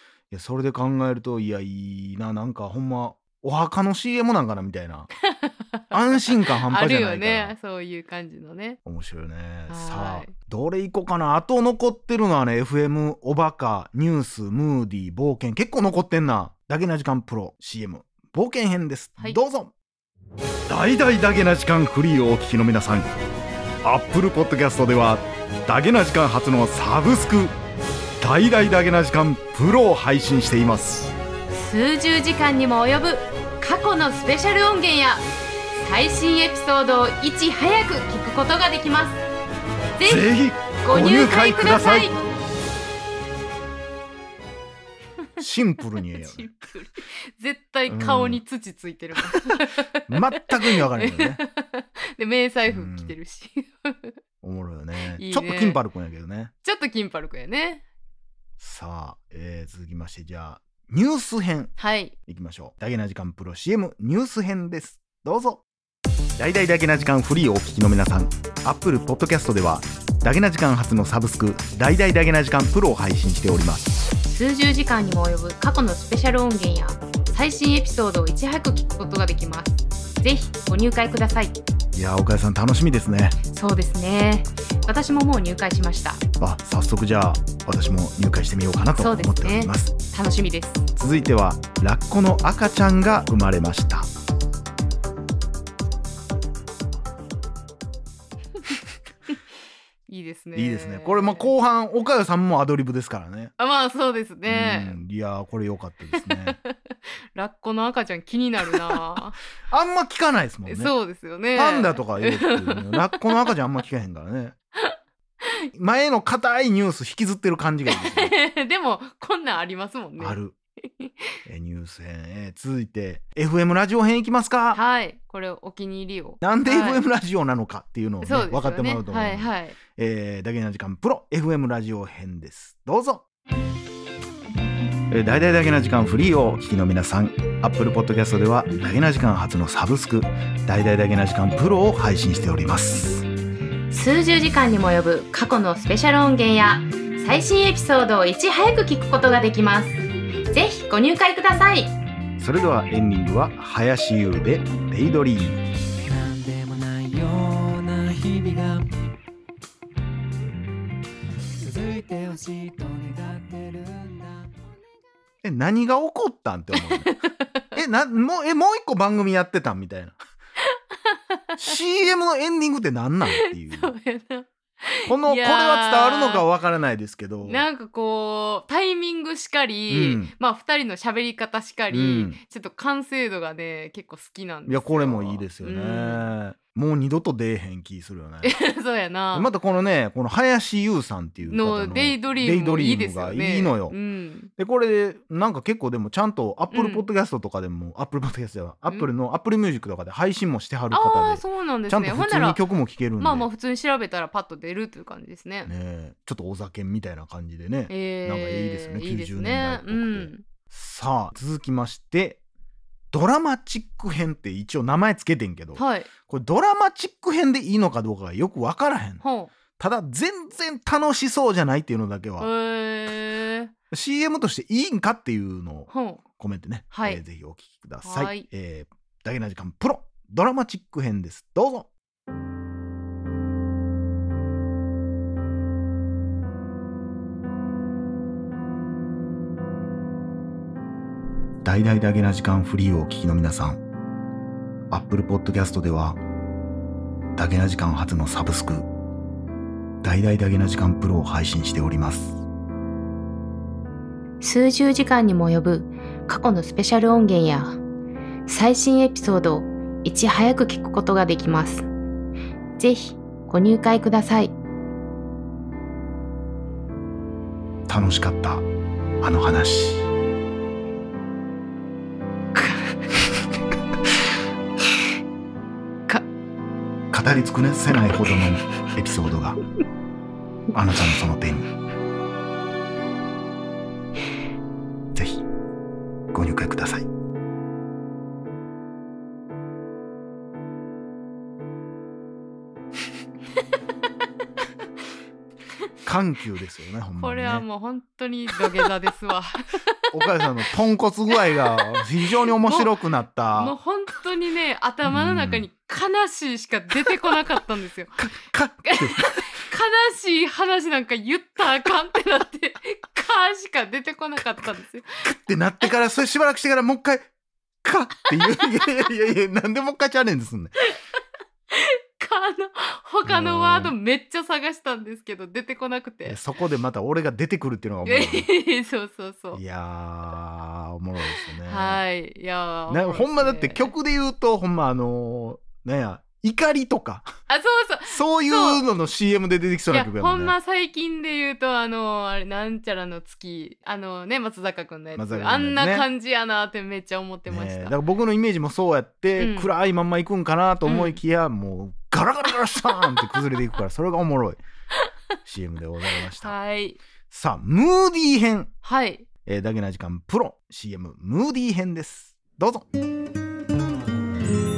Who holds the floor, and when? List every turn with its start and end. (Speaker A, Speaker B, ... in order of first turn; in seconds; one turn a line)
Speaker A: 0.3-5.1
Speaker B: 5.3-5.8
Speaker A: 5.9-7.5
Speaker B: 6.6-8.8
Speaker A: 8.8-19.7
Speaker B: 9.7-10.3
Speaker A: 20.7-23.1
Speaker A: 23.8-27.5
Speaker A: 28.2-31.1
Speaker B: 31.5-35.2
Speaker B: 35.8-39.2
Speaker B: 40.0-42.1
Speaker A: 40.0-42.1
Speaker A: 45.4-46.5
Speaker B: 46.1-54.1
Speaker A: 47.9-48.4
Speaker A: 50.1-51.4
Speaker A: 52.6-53.1
Speaker A: 54.4-56.5
Speaker B: 55.1-55.8
Speaker B: 56.6-57.8
Speaker A: 58.6-61.8
Speaker B: 61.8-62.1
Speaker A: 62.3-65.6
Speaker A: 66.4-73.9
Speaker B: 74.2-81.6
Speaker A: 81.9-83.4
Speaker B: 83.5-86.2
Speaker A: 86.4-89.9
Speaker B: 89.0-90.8
Speaker A: 91.0-94.1
Speaker B: 100.1-101.5
Speaker A: 100.5-103.5
Speaker B: 103.6-105.0
Speaker A: 104.5-106.6
Speaker B: 106.5-109.4
Speaker A: 109.7-111.0
Speaker B: 110.7-113.5
Speaker A: 111.5-114.5
Speaker A: 115.7-118.3
Speaker B: 117.9-121.3
Speaker A: 120.2-120.5
Speaker A: 121.5-124.8
Speaker B: 124.7-127.0
Speaker A: 126.4-133.2
Speaker B: 128.2-129.8
Speaker A: 135.1-143.2
Speaker B: 143.9-151.9
Speaker A: 152.4-155.6
Speaker C: 156.0-158.8
Speaker C: 161.6-164.4
Speaker A: 165.4-167.2
Speaker B: 167.1-167.7
Speaker A: 167.7-170.2
Speaker B: 171.1-171.4
Speaker A: 171.6-173.9
Speaker B: 173.3-176.4
Speaker A: 175.1-177.7
Speaker B: 177.4-186.3
Speaker A: 179.9-180.3
Speaker A: 181.9-182.4
Speaker A: 184.7-188.6
Speaker B: 188.4-189.5
Speaker A: 189.3-193.9
Speaker B: 191.5-194.5
Speaker A: 194.6-203.5
Speaker B: 196.7-197.1
Speaker B: 200.9-202.6
Speaker B: 203.2-205.7
Speaker A: 205.7-212.4
Speaker B: 207.9-210.4
Speaker A: 213.1-219.2
Speaker B: 215.8-216.1
Speaker B: 219.2-219.5
Speaker A: 219.8-222.5
Speaker B: 222.4-223.7
Speaker A: 223.9-231.9
Speaker B: 225.9-226.2
Speaker B: 226.9-227.2
Speaker B: 228.0-228.4
Speaker A: 241.6-243.8
Speaker A: 244.9-246.2
Speaker A: 247.3-248.9
Speaker A: 250.0-252.4
Speaker B: 254.4-257.8
Speaker B: 258.5-261.9
Speaker B: 262.8-264.5
Speaker A: 267.9-268.7
Speaker A: 269.2-270.1
Speaker B: 272.5-273.0
Speaker A: 277.1-279.6
Speaker A: 280.7-281.7
Speaker A: 285.1-285.4
Speaker A: 286.3-287.1
Speaker A: 296.0-297.6
Speaker B: 297.2-300.0
Speaker A: 300.1-303.8
Speaker B: 301.3-302.0
Speaker B: 302.6-302.9
Speaker B: 303.5-308.1
Speaker A: 305.1-305.6
Speaker A: 308.1-309.4
Speaker B: 308.9-315.1
Speaker A: 315.2-317.3
Speaker A: 317.8-320.8
Speaker B: 321.7-326.4
Speaker A: 323.2-323.9
Speaker A: 326.2-328.5
Speaker B: 328.0-329.6
Speaker A: 329.5-332.0
Speaker B: 331.6-333.9
Speaker A: 332.9-337.3
Speaker B: 337.5-338.8
Speaker A: 338.1-340.5
Speaker B: 339.9-347.9
Speaker A: 345.2-346.1
Speaker A: 347.5-354.6
Speaker B: 349.4-349.7
Speaker B: 350.8-351.2
Speaker A: 355.4-356.6
Speaker B: 356.4-357.0
Speaker A: 357.3-358.7
Speaker B: 358.8-359.2
Speaker A: 359.4-362.8